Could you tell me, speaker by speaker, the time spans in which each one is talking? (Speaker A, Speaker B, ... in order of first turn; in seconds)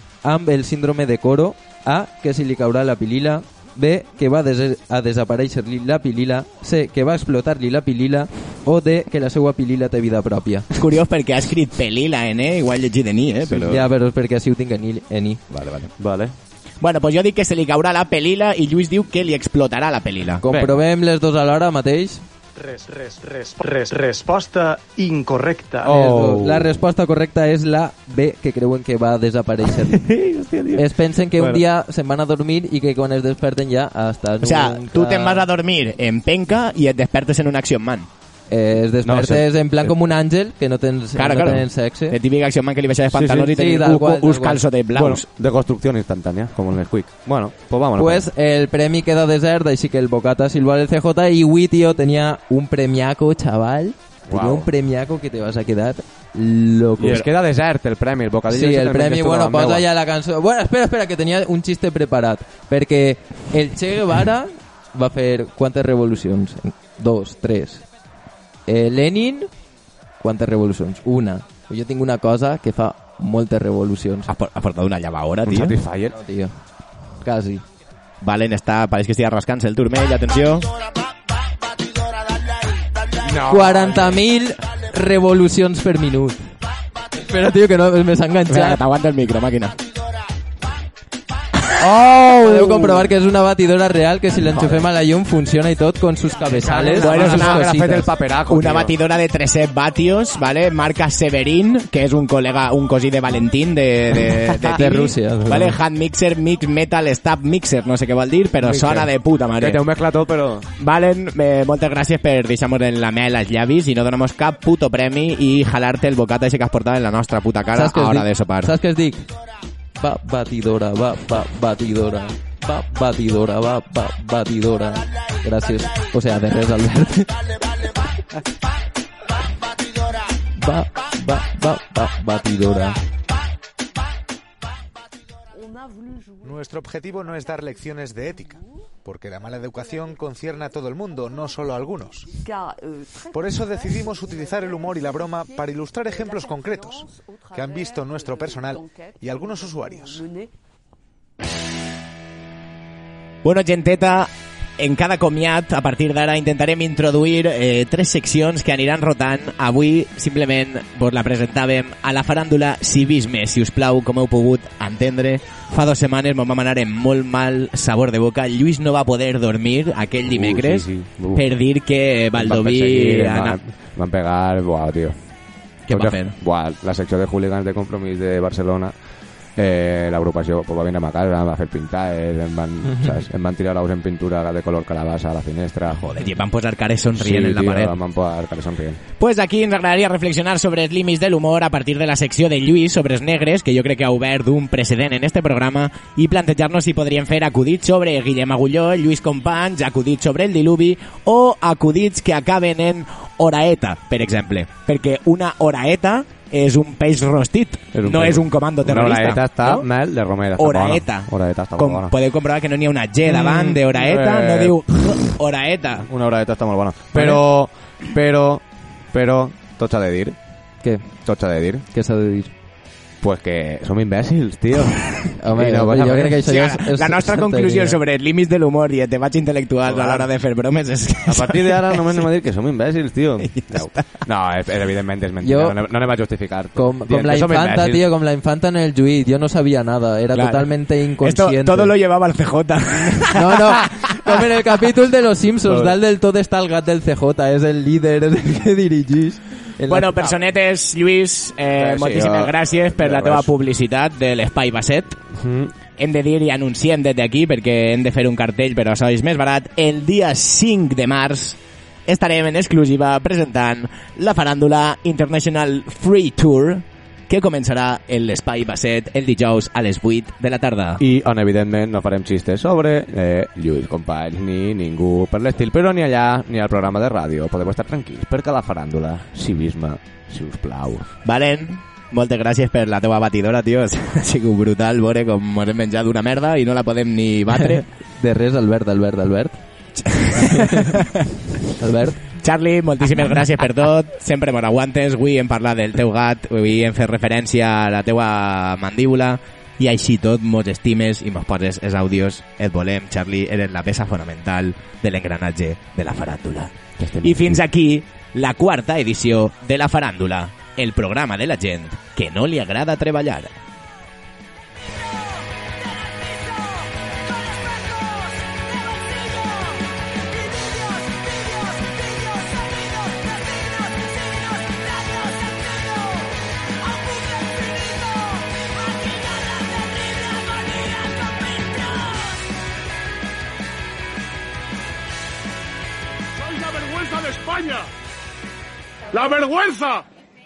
Speaker A: 0.2-10.7, 13.6-15.4, 20.4-22.2, 25.8-30.1, 30.7-35.4, 38.5-42.2, 43.5-44.6, 48.0-57.3, 58.5-67.8, 68.7-69.5, 70.2-74.3, 76.1-76.5, 77.1-77.6, 83.5-86.5, 87.2-88.8, 92.0-98.1, 104.7-105.8, 117.7-119.3, 120.0-127.3, 130.6-133.0, 220.8-221.1, 221.9-222.5, 225.4-228.0, 235.4-235.7, 236.7-241.9, 243.3-250.1, 287.7-289.6, 290.5-290.8, 291.8-292.2
Speaker B: 10.8-13.9, 15.5-15.9, 16.8-20.4, 34.4-38.1, 41.1-45.2, 74.3-75.8, 78.2-80.7, 88.5-89.8, 91.6-93.1, 94.5-94.8, 97.0-97.8, 98.5-109.8, 110.8-118.7, 153.4-173.6, 175.9-176.3, 185.9-187.9, 189.2-209.9, 210.6-216.1, 225.6-232.3, 233.4-234.2, 240.3-244.3, 249.9-255.2, 256.0-271.0, 281.2-287.8, 290.0-291.3, 292.3-313.6
Speaker C: 16.0-16.3, 20.5-20.8, 25.8-26.7, 29.9-30.9, 31.4-31.6, 39.0-39.9, 43.1-43.5, 45.0-48.2, 54.3-54.7, 57.0-59.8, 75.5-76.2, 83.2-84.2, 96.5-99.0, 108.6-110.7, 170.3-171.6, 172.3-175.2, 175.8-178.9, 179.6-186.1, 187.2-189.0, 207.9-212.1, 213.2-215.4, 216.1-220.4, 221.1-221.8, 223.2-226.4, 229.8-230.3, 231.2-238.0, 245.7-245.9, 251.8-253.5, 255.4-255.7, 271.0-281.1, 307.0-307.6
Speaker D: 22.5-25.9
Speaker E: 136.4-142.4, 143.3-150.2
Speaker F: 336.4-337.9, 339.1-340.0